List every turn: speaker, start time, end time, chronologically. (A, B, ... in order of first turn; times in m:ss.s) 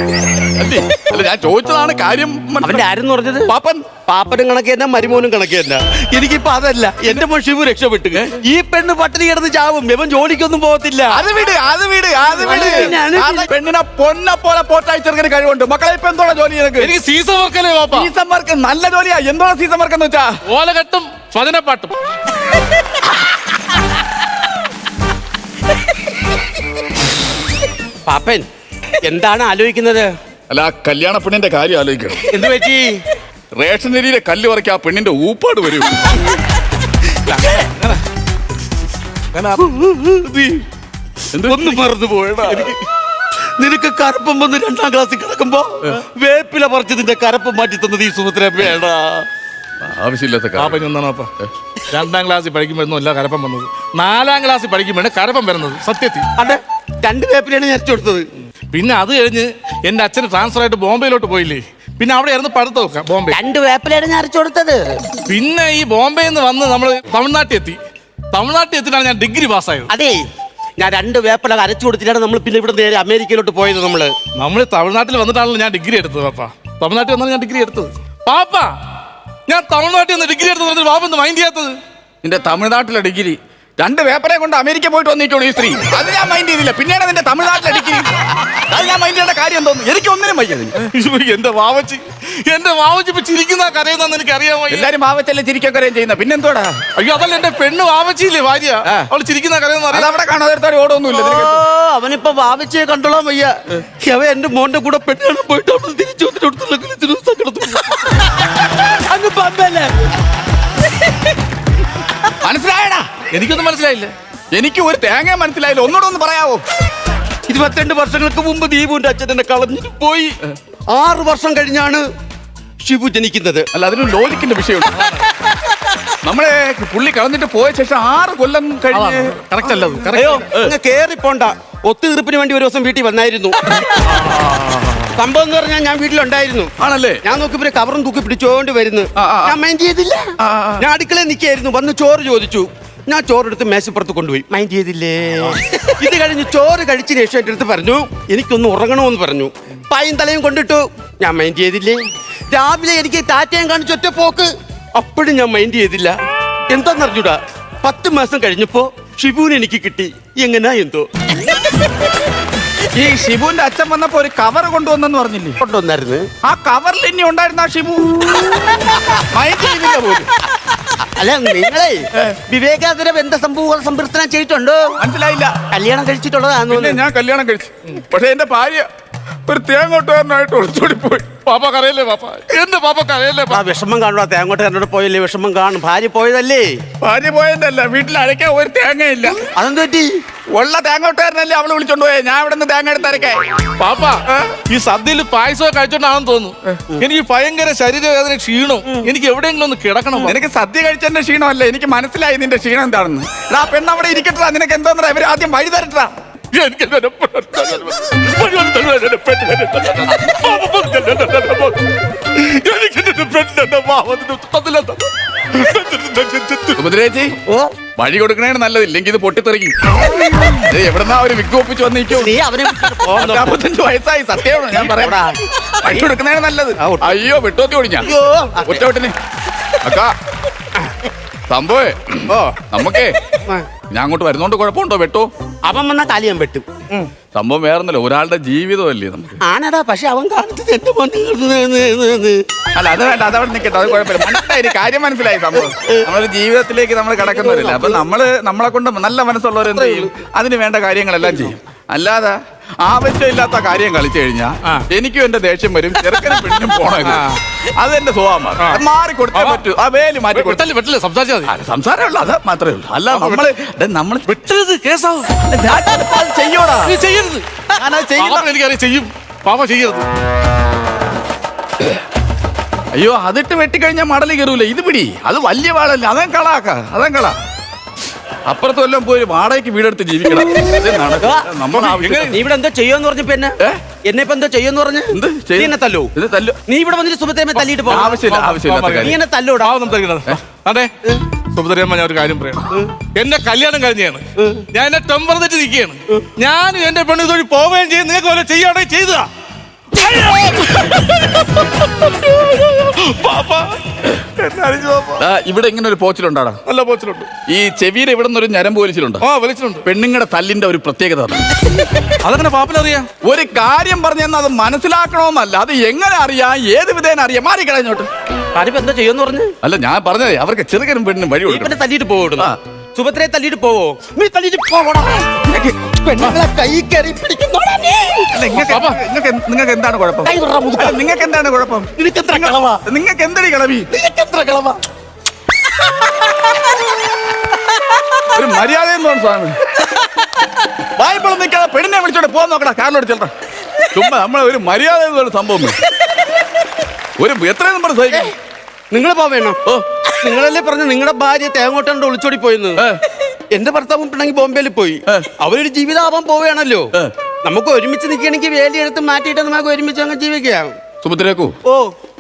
0:00.3-0:02.8 A
0:02.6-0:03.5 B
0:03.5-0:03.8 A
0:04.0-0:11.2 B
0:08.1-0:08.4 A
0:11.1-0:16.9 A
0:12.4-0:13.5 B
0:16.8-0:18.1 C
0:17.9-0:20.4 A
0:20.5-0:22.0 C
0:28.1-0:28.5 B
0:29.0-0:30.1 B
0:30.5-0:32.3 A
0:32.3-0:32.9 B
0:33.6-0:36.2 A
0:37.2-0:38.0 C
0:39.3-0:39.8 C
0:39.6-0:40.6 B
0:41.3-0:41.9 A
0:41.5-0:42.8 B
0:42.4-0:42.8 C
0:43.6-0:49.3 B
0:49.8-0:50.8 A
0:50.6-0:51.3 C
0:51.8-0:56.3 C
0:56.4-0:58.3 B
0:58.7-1:03.4 C
1:03.3-1:05.0 B
1:05.3-1:07.8 C
1:08.3-1:09.9 C
1:09.9-1:10.2 B
1:10.8-1:14.2 B
1:14.4-1:18.7 C
1:19.5-1:21.8 C
1:22.2-1:30.8 A
1:30.8-1:34.9 C
1:34.7-1:36.8 A
1:37.0-1:40.1 C
1:39.9-1:41.6 A
1:41.1-1:48.3 B
1:48.9-1:49.9 B
1:52.4-1:53.1 A
1:53.3-1:54.1 C
1:54.5-1:56.6 A
1:57.5-2:00.4 B
2:00.9-2:02.0 B
2:02.8-2:03.7 B
2:03.7-2:05.2 A
2:04.9-2:05.3 C
2:06.2-2:09.8 A
2:08.9-2:10.5 C
2:10.1-2:13.6 B
2:14.1-2:15.0 C
2:15.2-2:16.7 B
2:16.8-2:17.2 A
2:17.2-2:36.2 B
2:19.2-2:19.6 A
2:20.4-2:20.8 A
2:36.7-2:41.1 B
2:43.0-2:45.6 A
2:45.6-2:46.3 B
2:46.4-2:48.3 A
2:49.1-2:50.3 A
2:51.0-2:54.9 B
2:55.0-2:55.6 A
2:55.7-2:57.0 B
2:56.7-2:58.9 A
2:59.5-3:01.4 A
3:01.4-3:03.6 C
3:03.5-3:06.8 B
3:07.0-3:09.4 A
3:09.4-3:10.1 B
3:10.5-3:13.5 A
3:13.8-3:20.4 C
3:20.2-3:26.1 A
3:26.5-3:36.8 C
3:36.8-3:37.4 A
3:37.5-3:37.8 B
3:38.0-3:39.7 A
3:40.5-3:42.4 A
3:42.2-3:43.6 B
3:43.1-3:45.2 A
3:44.8-3:46.1 B
3:45.8-3:48.1 A
3:46.8-3:47.2 B
3:48.0-3:48.8 B
3:48.6-3:49.1 A
3:49.8-3:50.1 A
3:51.5-3:53.2 A
3:52.3-3:52.6 B
3:53.9-3:55.3 A
3:55.7-3:57.1 B
3:57.3-3:59.4 A
3:59.4-4:02.4 B
4:02.8-4:17.2 A
4:05.7-4:06.0 B
4:07.2-4:08.0 B
4:09.7-4:10.1 B
4:17.0-4:17.4 C
4:17.8-4:20.7 A
4:18.6-4:19.6 C
4:20.3-4:21.5 C
4:21.5-4:24.3 A
4:23.1-4:23.5 C
4:24.3-4:25.4 C
4:25.4-4:27.0 A
4:26.8-4:30.1 C
4:27.8-4:28.5 B
4:33.0-4:37.4 A
4:38.5-4:42.4 A
4:41.2-4:41.5 B
4:41.7-4:42.4 C
4:42.3-4:46.1 B
4:45.1-4:46.6 A
4:46.7-4:48.2 B
4:47.6-4:50.9 C
4:47.8-4:49.2 A
4:49.0-4:49.8 B
4:51.5-4:59.3 C
4:54.4-4:54.6 B
5:00.0-5:05.2 C
5:00.1-5:00.6 B
5:05.2-5:06.6 A
5:06.7-5:07.3 C
5:07.5-5:09.2 A
5:09.2-5:09.8 C
5:09.8-5:11.5 A
5:12.2-5:13.1 C
5:13.2-5:18.1 A
5:18.6-5:19.5 B
5:19.6-5:21.8 A
5:21.5-5:28.6 B
5:25.5-5:25.7 A
5:28.3-5:33.9 A
5:28.6-5:29.0 C
5:30.2-5:31.0 B
5:32.0-5:32.8 B
5:33.9-5:34.8 B
5:38.3-5:39.6 A
5:41.0-5:43.3 A
5:43.9-5:45.8 A
5:47.2-5:48.3 A
5:48.9-5:52.9 B
5:53.5-5:56.9 B
5:57.4-6:00.7 B
6:01.0-6:01.6 A
6:01.7-6:01.9 B